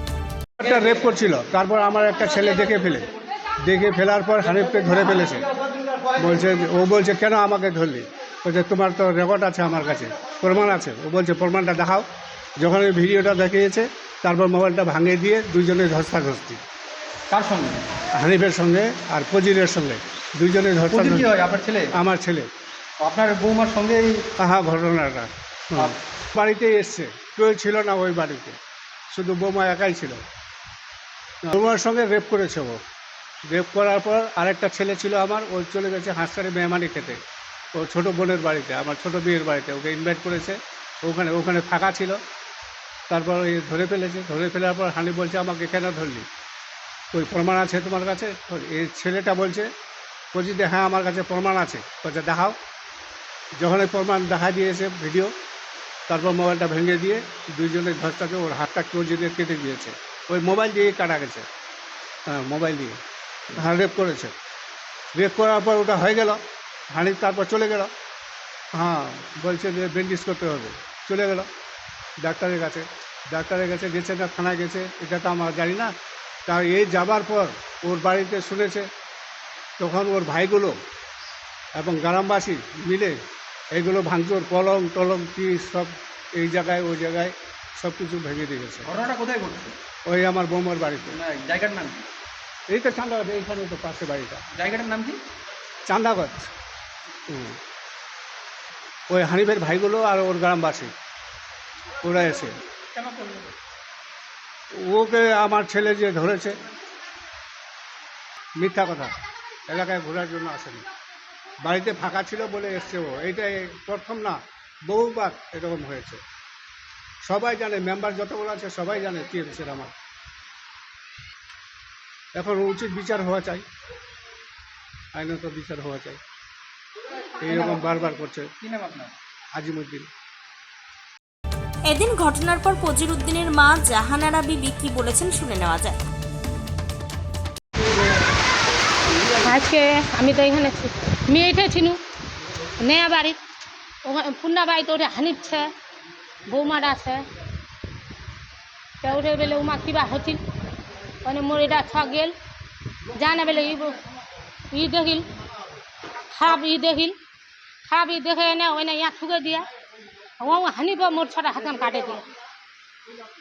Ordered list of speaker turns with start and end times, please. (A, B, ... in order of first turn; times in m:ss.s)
0:00.6-0:03.1 A
0:03.6-0:05.5 A
0:06.1-0:12.0 A
0:12.6-0:16.6 A
0:17.3-0:17.9 B
0:18.1-0:21.3 A
0:20.9-0:21.9 B
0:21.9-0:22.5 A
0:23.0-0:24.3 B
0:24.4-0:28.6 A
0:29.1-0:30.2 A
0:31.4-0:32.8 A
0:33.5-0:37.2 A
0:37.7-0:42.2 A
0:43.1-0:46.2 A
0:47.1-0:49.7 A
0:50.3-0:52.6 A
0:53.6-0:55.3 A
0:56.1-1:01.4 A
1:02.3-1:03.0 A
1:03.6-1:04.3 A
1:05.2-1:06.4 A
1:06.9-1:07.9 A
1:08.8-1:11.5 A
1:12.2-1:15.9 A
1:16.5-1:18.9 A
1:19.8-1:20.8 A
1:21.8-1:23.2 A
1:23.7-1:28.9 A
1:28.9-1:29.7 B
1:30.1-1:31.2 A
1:31.1-1:32.1 B
1:32.7-1:34.4 A
1:34.6-1:35.2 B
1:35.9-1:36.5 A
1:37.3-1:37.6 A
1:39.1-1:40.9 A
1:42.0-1:42.6 A
1:44.8-1:46.5 A
1:48.6-1:49.2 A
1:49.7-1:50.8 A
1:51.6-1:56.2 A
1:57.2-1:59.9 A
2:02.4-2:03.6 A
2:05.1-2:06.2 A
2:07.4-2:08.5 A
2:07.5-2:07.8 B
2:08.6-2:09.1 B
2:09.5-2:10.1 A
2:11.9-2:16.0 C
2:19.4-2:22.0 D
2:22.8-2:23.4 D
2:24.0-2:25.7 D
2:26.5-2:27.2 D
2:29.0-2:30.4 D
2:31.2-2:32.3 D
2:33.2-2:34.0 D
2:34.7-2:35.3 D
2:36.3-2:37.2 D
2:37.9-2:39.7 D
2:40.4-2:42.2 D